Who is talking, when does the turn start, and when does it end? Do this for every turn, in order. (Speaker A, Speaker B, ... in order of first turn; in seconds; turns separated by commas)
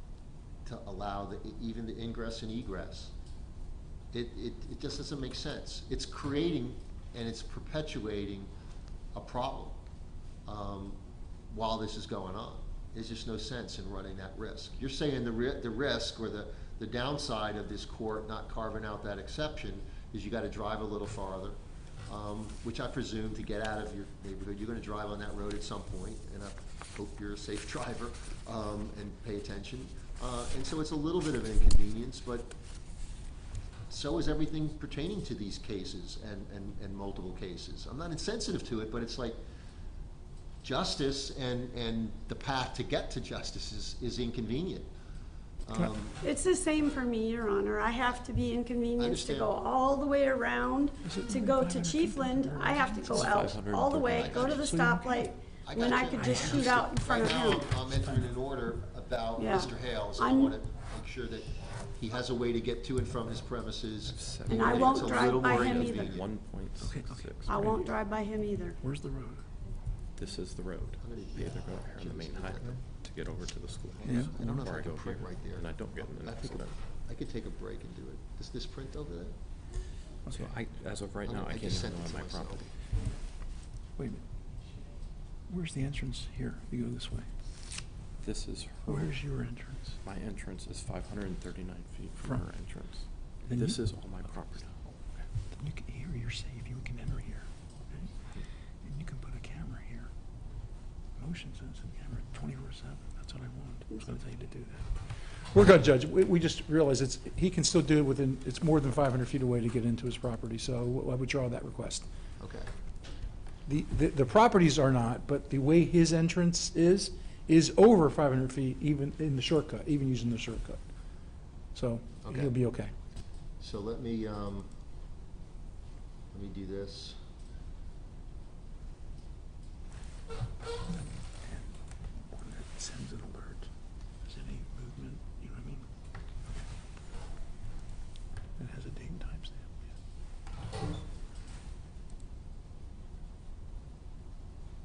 Speaker A: 0.6-3.1, Speaker A: 4.1-8.5, Speaker A: 9.1-9.8, Speaker A: 10.4-11.0, Speaker A: 11.5-32.5, Speaker A: 33.9-39.4, Speaker A: 40.6-44.9, Speaker A: 45.6-46.2, Speaker B: 46.2-57.7, Speaker A: 49.0-49.5, Speaker C: 51.0-53.5, Speaker D: 53.1-54.8, Speaker C: 54.4-55.3, Speaker A: 55.7-66.3, Speaker C: 56.2-56.6, Speaker B: 59.4-60.5, Speaker D: 64.1-67.6, Speaker B: 64.5-66.2, Speaker C: 66.8-67.9, Speaker B: 67.5-68.8, Speaker C: 68.8-69.4, Speaker D: 70.2-76.8, Speaker A: 71.0-72.8, Speaker A: 74.0-79.4, Speaker C: 74.0-74.4, Speaker C: 80.2-80.5, Speaker D: 80.3-82.7, Speaker A: 81.2-82.7, Speaker C: 84.0-84.2, Speaker C: 85.5-87.3, Speaker D: 88.2-89.1, Speaker C: 88.9-90.0, Speaker D: 90.0-95.0, Speaker C: 93.5-93.8, Speaker C: 95.5-98.1, Speaker C: 98.8-100.1, Speaker C: 101.2-104.9, Speaker C: 105.5-112.1, Speaker A: 112.4-112.7, Speaker C: 113.7-120.8, Speaker C: 121.7-122.9, Speaker A: 122.2-122.5, Speaker A: 123.6-124.7, Speaker A: 126.3-127.2, Speaker C: 132.3-133.7, Speaker C: 134.2-135.8, Speaker C: 138.6-139.7